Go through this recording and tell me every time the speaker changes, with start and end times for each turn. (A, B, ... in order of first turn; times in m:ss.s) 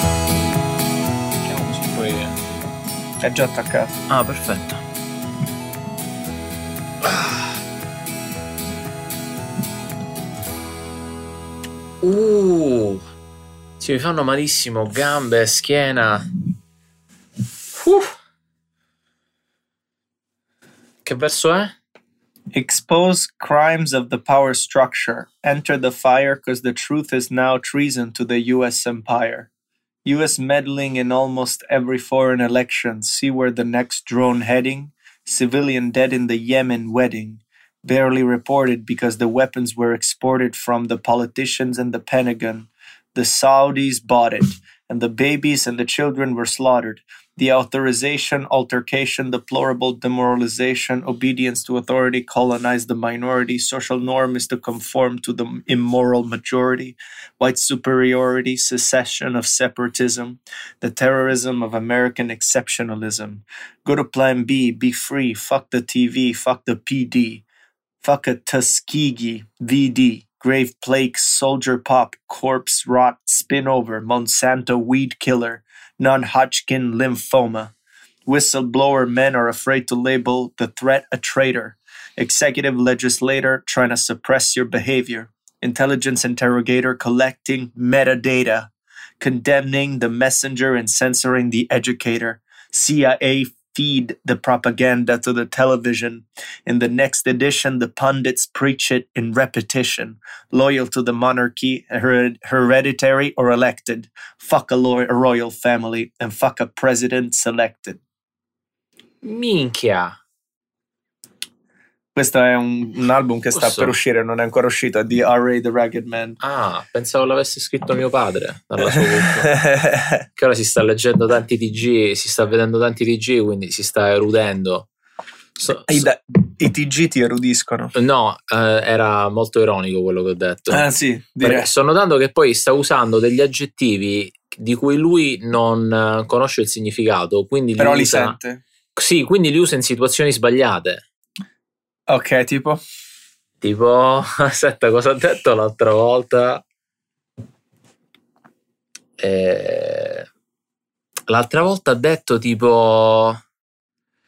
0:01.5-0:02.3 A
0:03.2-0:04.0 B
0:04.1-0:04.8 A
0:07.0-0:07.5 A
0:12.0-0:13.0 A
0:13.8-0:16.3 A
0:17.7-0:18.1 A
0:21.0-0:21.7 A
0:22.5-0:29.5 B
0:30.0-1:07.4 B
1:08.0-1:17.7 B
1:18.3-1:48.0 B
1:49.2-1:50.1 A
1:52.2-1:56.4 B
1:53.5-1:53.9 A
1:56.4-1:59.6 A
1:58.8-2:00.2 B
2:00.4-2:04.9 A
2:05.6-2:06.1 A
2:05.9-2:08.0 B
2:08.0-2:10.8 A
2:10.7-2:11.7 B
2:11.4-2:18.4 A
2:17.8-2:18.6 B
2:19.0-2:21.0 A
2:22.1-2:22.8 B
2:23.6-2:26.6 A
2:29.2-2:30.3 A
2:31.3-2:33.4 A